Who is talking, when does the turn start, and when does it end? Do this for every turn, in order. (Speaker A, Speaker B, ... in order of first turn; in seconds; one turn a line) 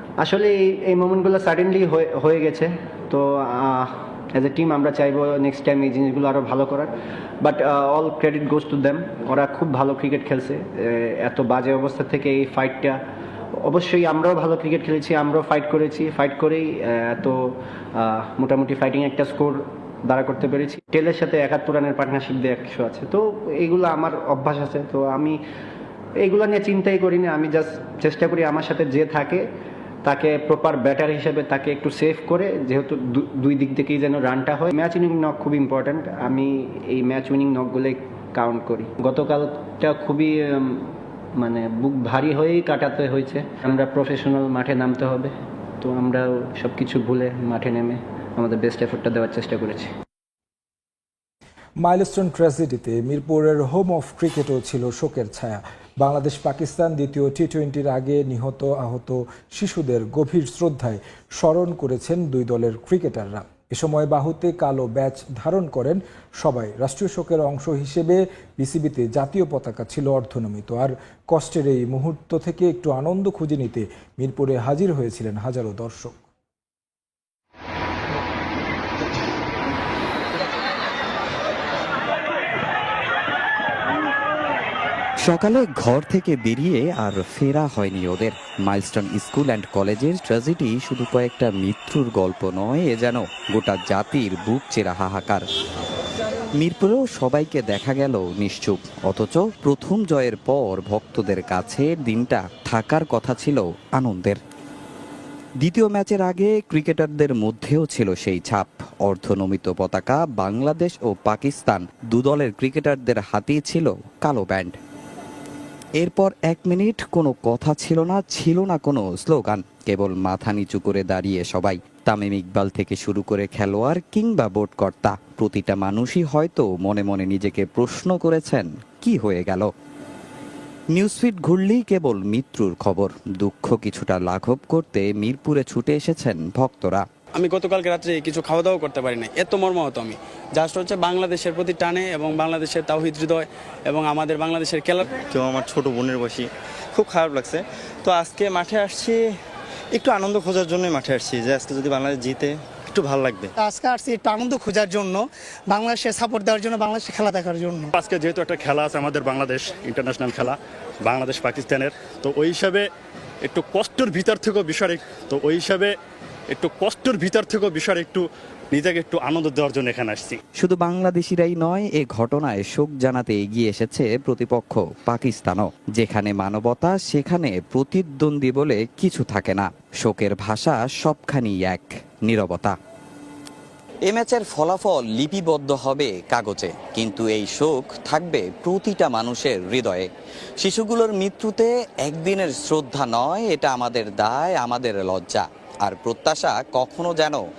Speaker A: 0.2-13.0
Speaker A: 13.6-17.4
Speaker A: 18.0-25.4
Speaker A: 26.2-29.4
Speaker A: 30.0-49.9
Speaker B: 51.8-76.2
Speaker C: 85.2-95.4
Speaker C: 96.6-104.4
Speaker C: 105.6-114.8
Speaker C: 116.0-129.7
Speaker C: 130.9-137.0
Speaker D: 137.3-145.3
Speaker E: 145.3-149.2
Speaker E: 150.1-153.5
Speaker F: 153.6-157.9
Speaker G: 157.9-162.8
Speaker G: 163.4-165.9
Speaker G: 166.5-170.4
Speaker C: 170.6-182.8
Speaker C: 184.1-190.1
Speaker C: 190.6-197.4